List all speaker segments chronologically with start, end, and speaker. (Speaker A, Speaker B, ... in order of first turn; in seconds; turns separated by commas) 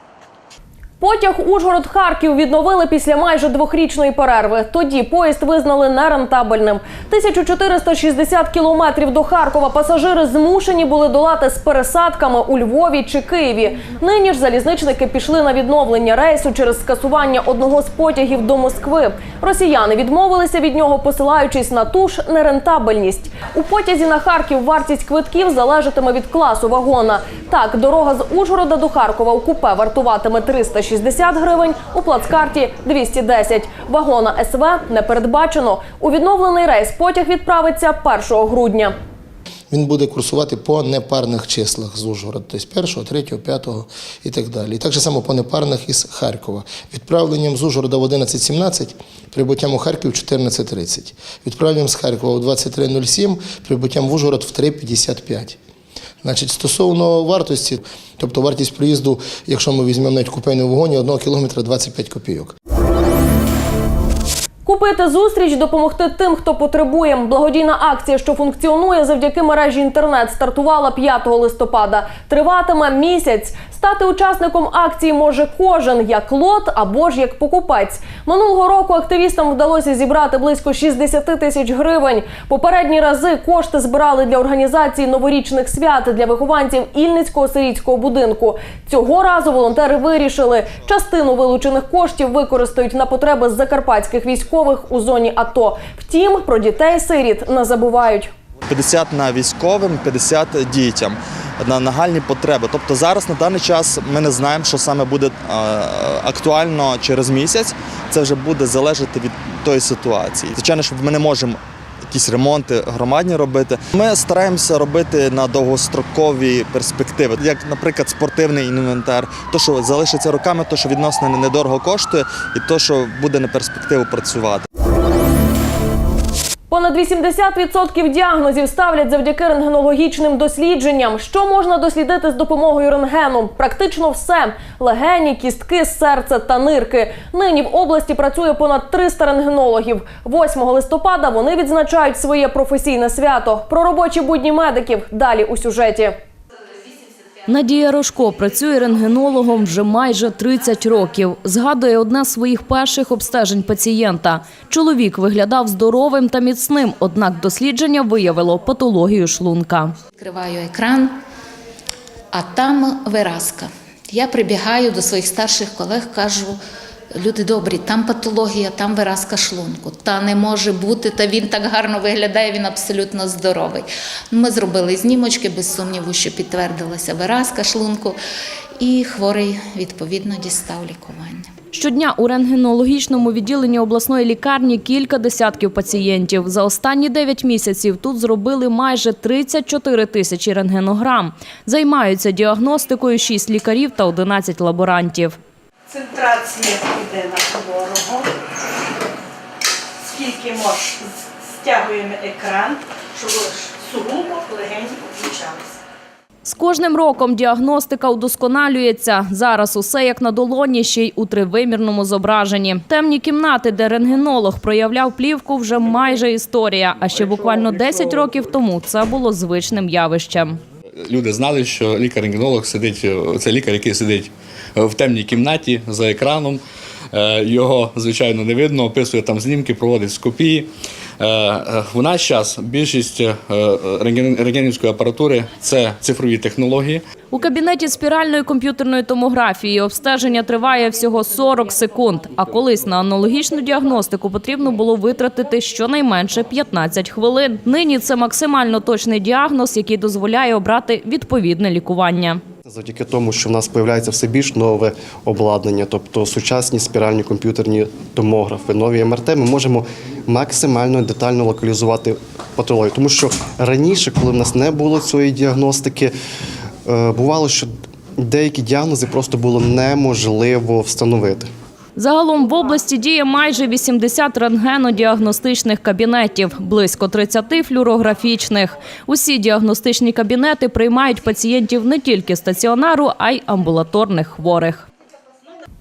Speaker A: 1.0-38.9, Speaker B: 39.7-55.6, Speaker B: 56.2-62.5, Speaker A: 64.7-98.3, Speaker C: 98.7-111.6, Speaker C: 112.1-124.7, Speaker A: 126.7-146.2, Speaker D: 147.5-160.0, Speaker E: 160.2-161.2, Speaker E: 162.3-166.6, Speaker E: 167.2-178.2, Speaker E: 178.8-181.5, Speaker D: 181.7-195.4, Speaker F: 195.9-198.2, Speaker F: 200.2-200.8, Speaker F: 201.6-205.5, Speaker D: 206.4-220.6, Speaker G: 222.8-224.0, Speaker G: 225.1-225.5, Speaker G: 228.6-230.3, Speaker G: 235.8-236.3, Speaker D: 237.3-252.4, Speaker H: 252.7-266.1, Speaker H: 266.9-271.5, Speaker D: 272.0-284.9